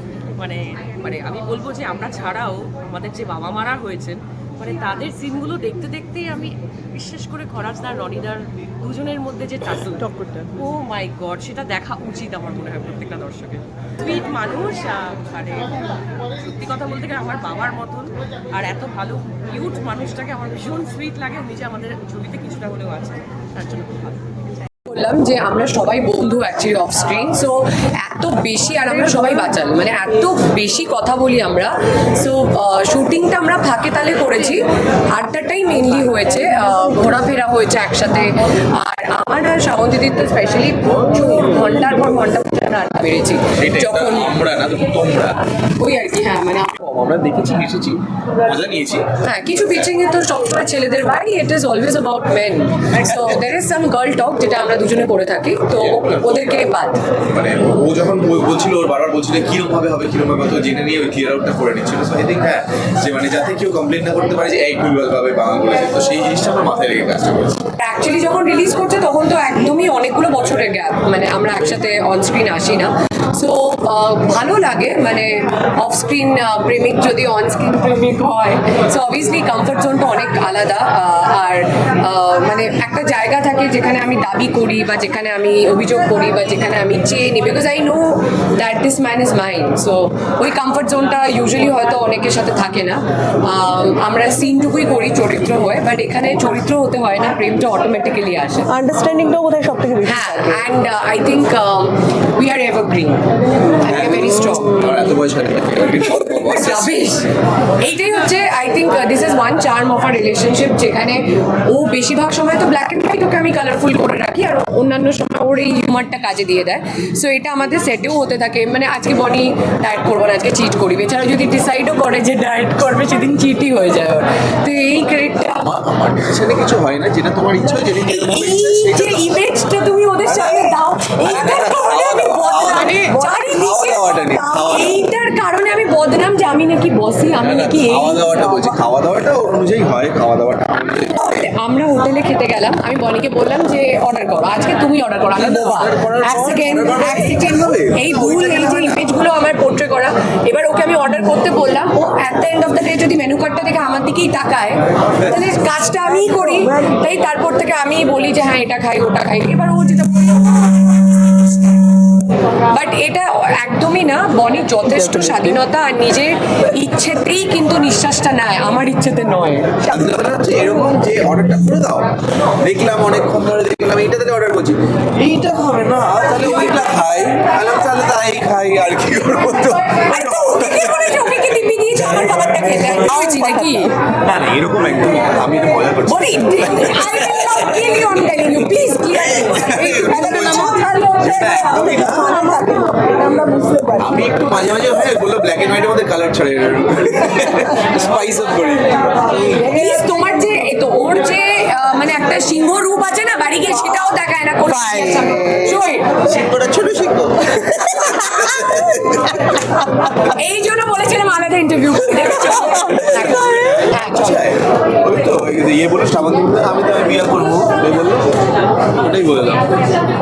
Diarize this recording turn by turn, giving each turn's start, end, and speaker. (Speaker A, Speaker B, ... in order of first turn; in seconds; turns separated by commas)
Speaker A: 0.4-24.2, Speaker B: 10.0-10.5, Speaker C: 24.9-44.4, Speaker D: 43.6-45.4, Speaker C: 45.8-46.7, Speaker D: 46.8-49.1, Speaker C: 49.2-57.0, Speaker D: 52.9-53.5, Speaker D: 55.8-56.7, Speaker D: 57.2-67.6, Speaker C: 67.8-98.7, Speaker B: 98.7-100.6, Speaker C: 100.0-103.2, Speaker C: 103.8-105.0, Speaker D: 103.8-107.0, Speaker C: 106.2-107.3, Speaker C: 107.8-125.7, Speaker D: 125.6-129.3, Speaker C: 127.8-138.7, Speaker D: 130.2-135.0, Speaker D: 137.4-141.4, Speaker C: 141.1-161.0, Speaker D: 145.4-149.0, Speaker B: 156.3-156.6, Speaker C: 162.7-169.7, Speaker B: 164.9-165.6, Speaker D: 169.8-181.4, Speaker C: 179.8-183.9, Speaker D: 182.6-183.1, Speaker B: 183.2-183.9, Speaker D: 184.2-187.9, Speaker C: 186.0-192.7, Speaker D: 189.1-192.2, Speaker B: 190.7-194.3, Speaker D: 193.9-199.6, Speaker C: 199.5-206.2, Speaker D: 204.8-205.3, Speaker D: 206.2-209.2, Speaker C: 208.1-208.5, Speaker C: 210.3-214.5, Speaker D: 212.3-220.0